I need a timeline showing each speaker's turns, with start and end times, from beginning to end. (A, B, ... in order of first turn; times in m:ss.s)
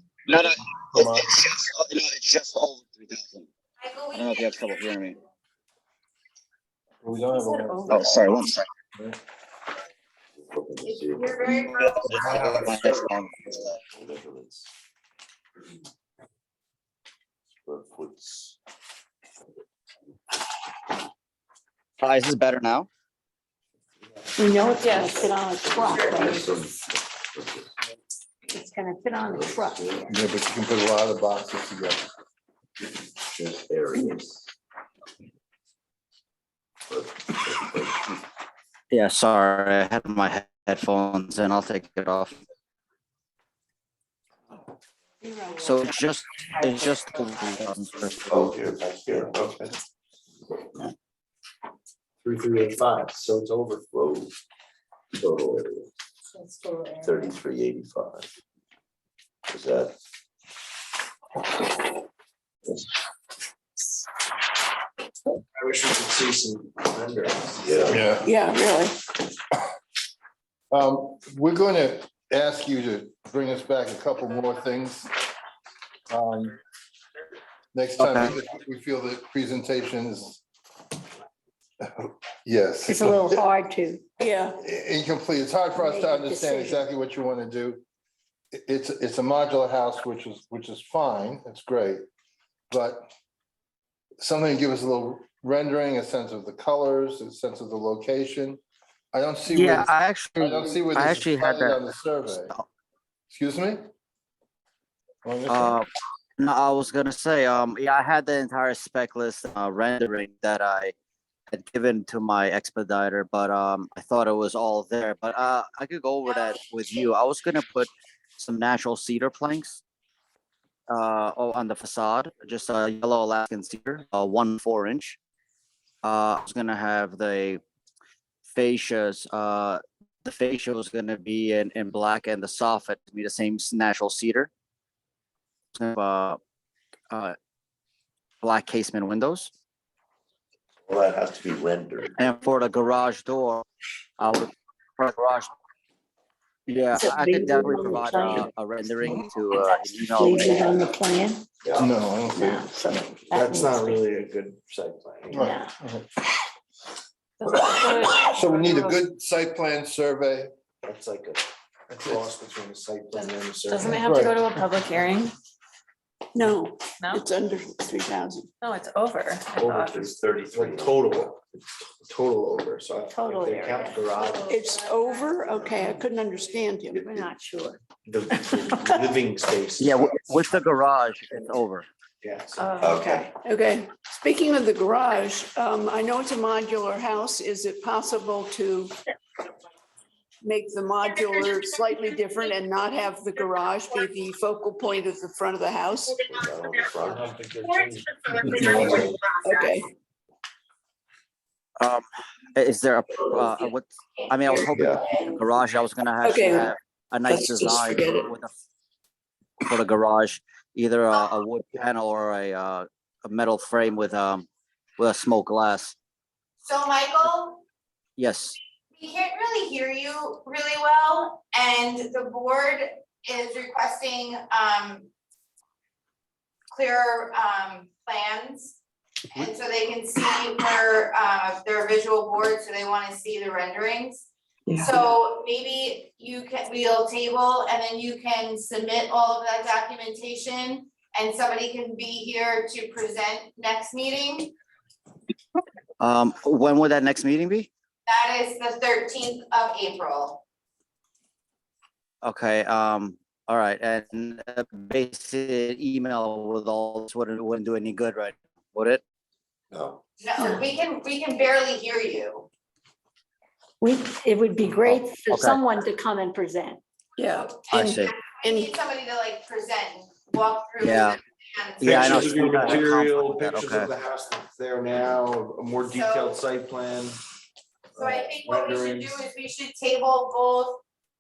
0:00.3-0:03.5 A
0:00.9-0:01.3 B
0:03.8-0:04.5 C
0:04.1-0:05.2 A
0:07.0-0:08.1 B
0:07.9-0:08.6 A
0:10.4-0:11.4 D
0:10.8-0:12.5 C
0:11.5-0:13.7 A
0:13.9-0:14.7 D
0:17.6-0:18.6 D
0:22.0-0:22.9 A
0:24.4-0:26.5 E
0:25.0-0:27.7 D
0:28.5-0:30.1 E
0:29.2-0:30.1 D
0:30.1-0:32.0 B
0:33.3-0:34.4 D
0:36.9-0:38.2 D
0:38.9-0:42.4 A
0:45.2-0:45.6 F
0:45.6-0:48.5 A
0:48.3-0:49.7 D
0:52.2-0:53.9 G
0:53.9-0:54.3 D
0:55.2-0:55.9 D
0:56.4-0:57.0 E
0:57.0-0:58.3 D
0:59.5-1:00.0 D
1:05.6-1:08.0 G
1:07.6-1:08.0 D
1:07.9-1:08.3 B
1:08.2-1:09.0 F
1:10.7-1:15.1 B
1:16.1-1:16.6 B
1:17.7-1:20.4 B
1:18.0-1:18.3 A
1:22.0-1:23.5 B
1:22.9-1:24.0 E
1:24.2-1:24.6 F
1:24.6-1:27.8 B
1:25.7-1:26.8 E
1:28.5-1:32.0 B
1:32.7-1:33.0 B
1:34.2-1:38.6 B
1:39.1-1:42.5 B
1:39.5-1:42.7 A
1:43.3-1:43.8 B
1:45.2-1:45.8 B
1:45.5-1:45.9 A
1:46.4-1:50.9 A
1:51.5-1:59.8 A
1:56.3-1:57.0 C
2:00.9-2:05.2 A
2:06.0-2:07.6 A
2:08.5-2:14.5 A
2:15.8-2:16.4 A
2:17.1-2:17.4 A
2:18.4-2:19.5 A
2:20.9-2:22.1 D
2:22.2-2:23.6 A
2:24.2-2:25.5 A
2:26.7-2:30.7 A
2:26.9-2:28.5 E
2:29.1-2:31.4 E
2:31.6-2:31.9 D
2:31.8-2:32.6 B
2:32.3-2:34.0 E
2:33.3-2:35.5 G
2:35.3-2:36.1 B
2:35.3-2:35.7 E
2:37.4-2:39.0 H
2:37.5-2:40.5 B
2:40.8-2:44.0 G
2:41.9-2:42.3 B
2:43.7-2:45.4 H
2:43.9-2:44.4 B
2:46.3-2:48.5 F
2:47.0-2:47.3 H
2:48.6-2:50.0 H
2:49.6-2:54.6 G
2:49.8-2:51.2 D
2:53.1-2:54.5 E
2:54.5-2:57.3 F
2:56.9-2:57.8 E
2:58.0-3:00.4 G
2:59.8-3:01.9 A
3:02.2-3:03.1 G
3:02.6-3:03.3 H
3:02.8-3:03.3 D
3:03.4-3:09.0 F
3:10.4-3:16.3 F
3:16.2-3:17.4 D
3:17.0-3:19.2 G
3:18.6-3:19.0 D
3:19.4-3:19.9 F
3:21.8-3:28.5 A
3:24.5-3:25.4 F
3:24.7-3:25.0 D
3:26.2-3:26.8 F
3:27.3-3:28.3 F
3:29.6-3:34.5 A
3:35.0-3:36.0 A
3:36.6-3:37.6 C
3:38.2-3:38.6 A
3:39.0-3:45.1 C
3:46.7-3:48.8 C
3:49.3-4:04.6 C
4:06.0-4:07.7 A
4:08.1-4:10.4 C
4:12.2-4:19.0 A
4:19.7-4:20.0 D
4:20.2-4:22.5 C
4:20.4-4:20.6 F
4:23.8-4:26.8 E
4:24.6-4:25.6 A
4:27.2-4:28.7 F
4:27.3-4:32.8 C
4:27.7-4:28.1 A
4:30.8-4:31.2 A
4:31.8-4:33.9 A
4:31.8-4:37.2 G
4:35.8-4:36.4 C
4:38.0-4:39.1 G
4:38.0-4:40.8 C